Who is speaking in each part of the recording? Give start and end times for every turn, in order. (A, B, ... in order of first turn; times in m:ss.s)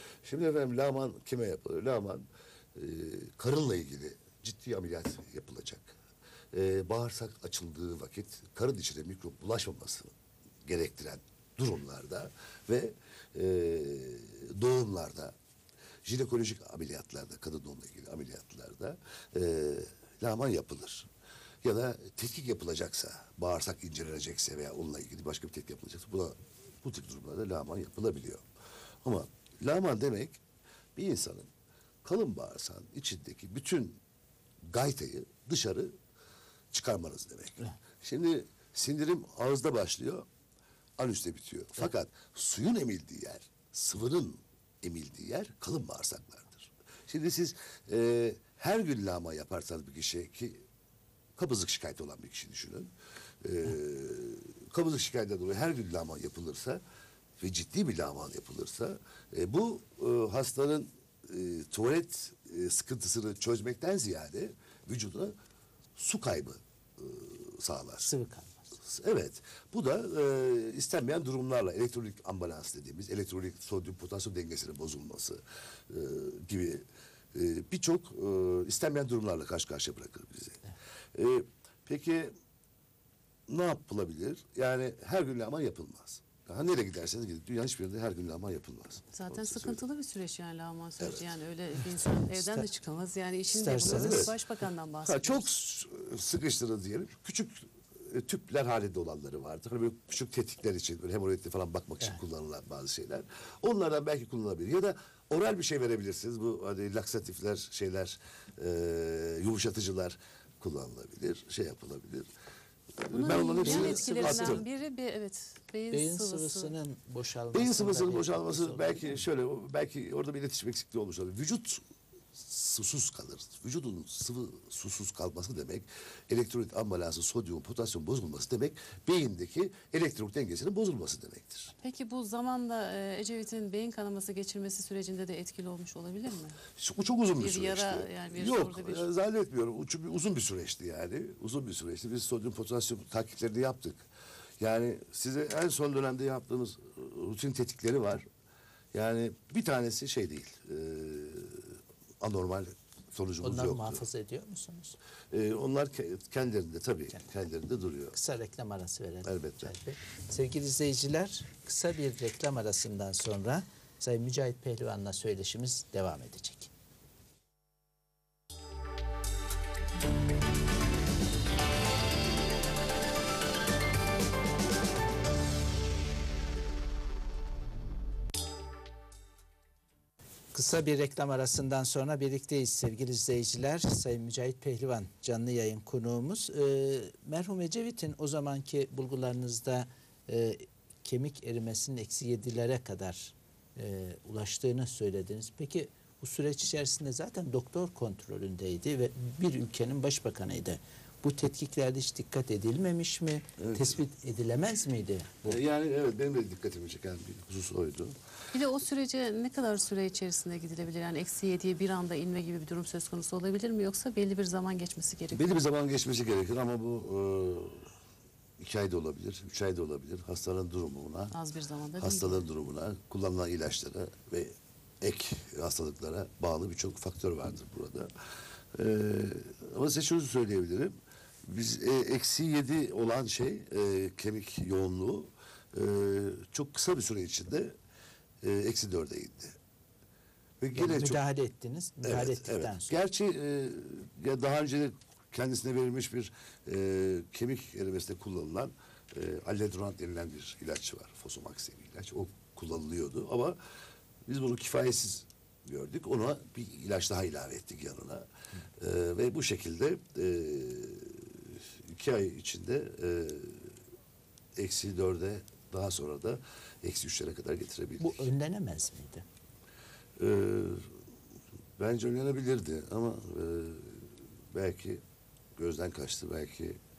0:00.2-0:06.0 A
0:06.5-0:10.1 A
0:10.6-0:15.3 A
0:16.0-0:21.1 A
0:21.6-0:28.4 A
0:29.0-0:30.4 A
0:31.0-0:31.5 A
0:32.0-0:34.0 A
0:34.7-0:35.9 A
0:36.7-0:40.3 A
0:41.0-0:50.6 A
0:51.4-0:52.9 A
0:53.4-0:56.8 A
0:57.4-1:05.3 A
1:06.0-1:08.1 A
1:08.0-1:08.6 B
1:08.8-1:22.3 A
1:23.5-1:29.8 A
1:29.1-1:35.5 C
1:31.0-1:31.3 A
1:33.5-1:34.3 B
1:33.8-1:34.3 A
1:35.0-1:52.3 A
1:53.0-1:54.6 A
1:53.1-1:56.7 C
1:53.6-1:54.6 B
1:55.9-1:59.2 B
1:57.5-2:01.8 A
2:02.4-2:11.7 A
2:11.8-2:16.6 C
2:16.8-2:24.1 A
2:17.4-2:19.1 C
2:24.6-2:28.2 A
2:28.9-2:34.0 A
2:33.4-2:35.0 B
2:35.3-2:38.1 A
2:38.1-2:46.7 B
2:39.2-2:39.7 A
3:00.5-3:25.6 B
3:23.6-3:24.0 A
3:25.4-3:28.1 A
3:28.5-3:35.6 C
3:35.3-3:37.9 A
3:38.6-3:41.3 A
3:41.3-3:42.5 C
3:42.0-3:48.1 A
3:48.7-3:50.9 A
3:51.5-3:57.7 A
3:58.4-3:59.6 A
4:00.6-4:01.2 A
4:00.7-4:03.0 B
4:02.0-4:13.6 A
4:14.2-4:23.7 A
4:24.6-4:28.3 A
4:28.0-4:29.2 B
4:30.2-4:30.9 A
4:31.8-4:35.0 A
4:35.6-4:36.8 A